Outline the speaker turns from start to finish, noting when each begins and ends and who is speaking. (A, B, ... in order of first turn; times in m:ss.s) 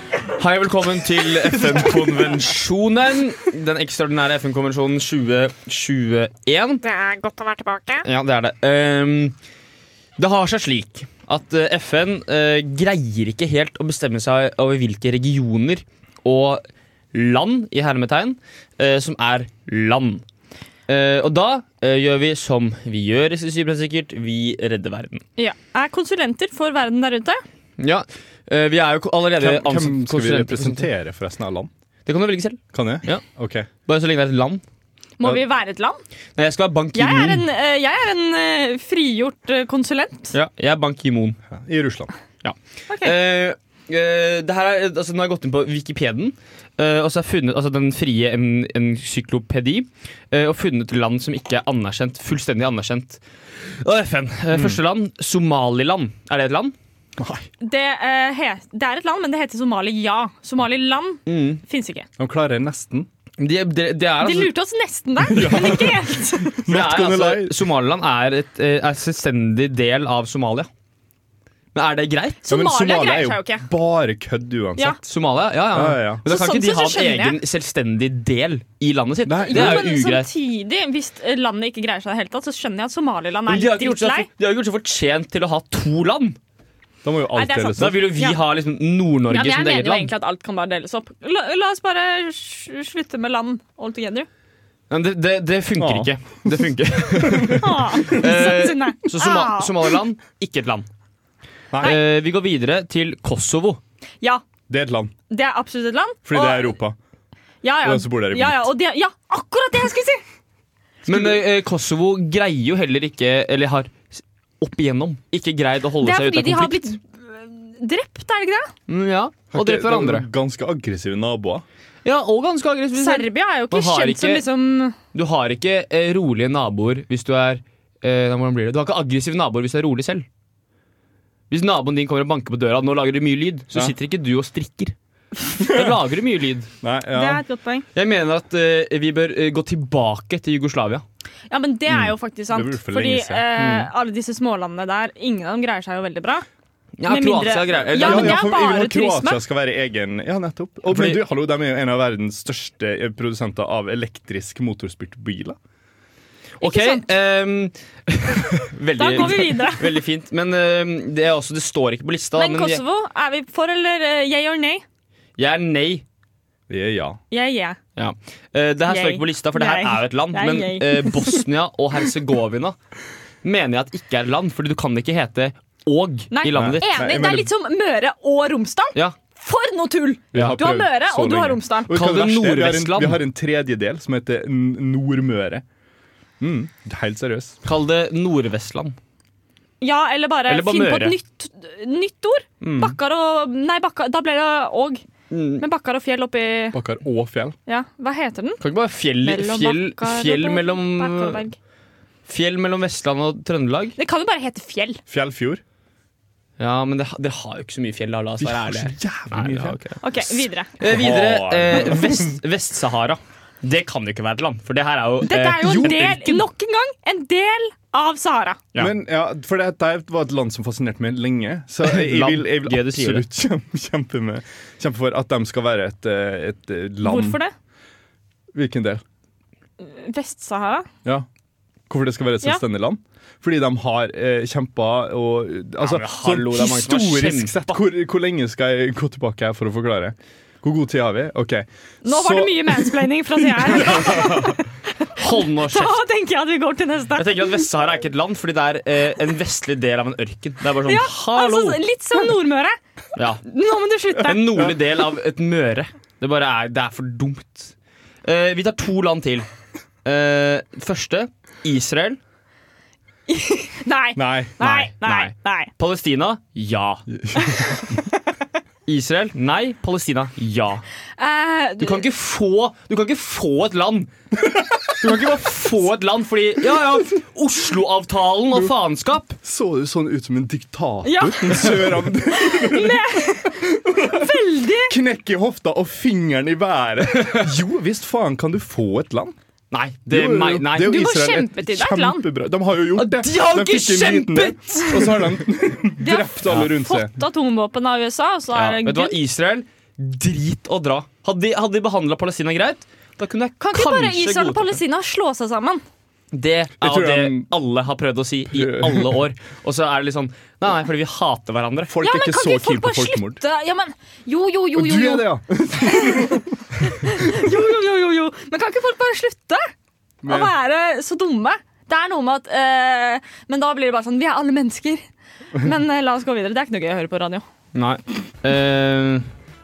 0:00.4-0:06.8 A
0:06.8-0:08.0 B
0:08.0-0:09.4 A
0:10.2-0:20.2 A
0:20.9-0:25.2 A
0:25.4-0:27.4 B
0:27.8-0:30.9 A
0:29.4-0:31.7 C
0:32.0-0:33.2 A
0:32.7-0:33.7 C
0:33.8-0:34.6 A
0:35.2-0:36.0 B
0:36.4-0:37.4 A
0:36.9-0:40.3 B
0:40.3-0:41.4 A
0:41.5-0:42.1 C
0:42.4-0:56.7 A
0:42.9-0:43.1 B
0:54.5-0:54.8 C
0:57.2-0:57.5 C
0:57.6-1:02.1 B
1:01.3-1:01.6 A
1:02.2-1:03.1 C
1:03.4-1:04.5 A
1:04.2-1:06.6 B
1:05.2-1:07.6 C
1:06.7-1:10.7 A
1:11.7-1:12.5 A
1:12.4-1:13.7 B
1:12.5-1:15.0 C
1:15.0-1:20.3 A
1:15.7-1:16.2 C
1:16.2-1:17.4 B
1:19.2-1:20.0 C
1:19.4-1:24.3 B
1:23.5-1:26.4 A
1:27.0-1:28.0 C
1:27.3-1:28.4 B
1:27.8-1:30.1 A
1:29.3-1:34.3 B
1:34.9-1:40.9 A
1:35.8-1:37.8 C
1:37.5-1:40.0 B
1:41.7-1:42.0 C
1:41.8-1:43.8 A
1:44.7-1:45.1 C
1:45.3-1:46.7 B
1:46.2-1:47.0 C
1:47.6-1:50.2 B
1:47.8-1:48.7 C
1:51.0-1:51.4 C
1:51.1-1:56.9 A
1:56.0-1:58.7 B
1:58.9-2:00.2 A
1:59.5-2:01.6 C
2:02.0-2:04.4 A
2:02.9-2:05.0 B
2:05.1-2:10.2 A
2:11.5-2:14.9 A
2:15.5-2:16.7 A
2:15.6-2:16.0 C
2:16.8-2:17.4 C
2:17.1-2:17.9 B
2:17.9-2:21.0 A
2:21.5-2:26.5 B
2:21.9-2:23.9 C
2:27.0-2:28.4 A
2:27.1-2:29.4 B
2:28.0-2:35.6 C
2:30.9-2:31.2 A
2:36.6-2:42.8 A
2:36.6-2:37.0 B
2:39.0-2:40.0 B
2:42.4-2:44.8 B
2:45.4-2:46.0 A
2:46.7-2:47.2 C
2:47.3-2:47.8 B
2:48.0-2:52.8 A
2:48.9-2:51.4 B
2:53.4-2:57.0 A
2:56.3-3:01.9 B
2:56.5-2:57.5 C
3:00.3-3:05.6 C
3:01.9-3:03.2 A
3:06.4-3:07.5 C
3:07.6-3:09.0 A
3:09.8-3:15.0 B
3:10.5-3:11.2 A
3:12.6-3:13.0 A
3:15.3-3:15.6 A
3:15.6-3:16.8 B
3:16.7-3:17.6 C
3:17.7-3:18.6 B
3:18.6-3:21.4 A
3:19.2-3:21.6 B
3:22.3-3:23.9 A
3:24.0-3:25.0 B
3:25.1-3:25.6 C
3:26.6-3:30.0 A
3:28.4-3:29.8 C
3:30.0-3:30.7 B
3:30.8-3:36.4 A
3:30.8-3:32.4 C
3:35.2-3:38.6 B
3:35.6-3:36.2 C
3:38.8-3:47.4 C
3:41.8-3:43.2 A
3:47.0-3:47.5 B
3:48.5-3:49.0 C
3:49.8-3:50.9 B
3:51.9-4:04.6 C
3:55.8-3:57.8 A
4:02.0-4:07.5 B
4:05.1-4:06.0 A
4:07.2-4:11.8 A
4:10.8-4:12.8 B
4:13.1-4:13.4 A
4:13.4-4:14.6 B
4:14.1-4:17.7 A
4:18.2-4:19.5 A
4:20.0-4:22.2 A
4:23.3-4:25.7 B
4:24.2-4:24.5 C
4:24.6-4:27.0 A
4:27.1-4:27.9 C
4:27.4-4:27.8 B
4:28.9-4:30.8 A
4:31.2-4:32.1 B
4:31.8-4:34.1 A
4:34.4-4:34.9 C
4:35.0-4:39.4 A
4:39.4-4:44.3 C
4:41.0-4:44.9 B
4:44.8-4:49.3 C
4:49.7-4:51.0 A
4:50.1-4:57.1 C
4:50.8-4:52.2 B
4:52.9-4:55.0 A
4:56.0-4:59.2 B
4:58.5-5:04.8 A
5:03.6-5:05.8 B
5:06.3-5:12.0 A
5:06.8-5:07.5 C
5:08.5-5:09.2 C
5:11.9-5:13.4 C
5:12.0-5:15.3 B
5:14.8-5:17.1 C
5:15.8-5:19.7 B
5:20.2-5:20.5 C
5:20.2-5:25.0 B
5:25.6-5:27.4 B
5:27.7-5:29.3 A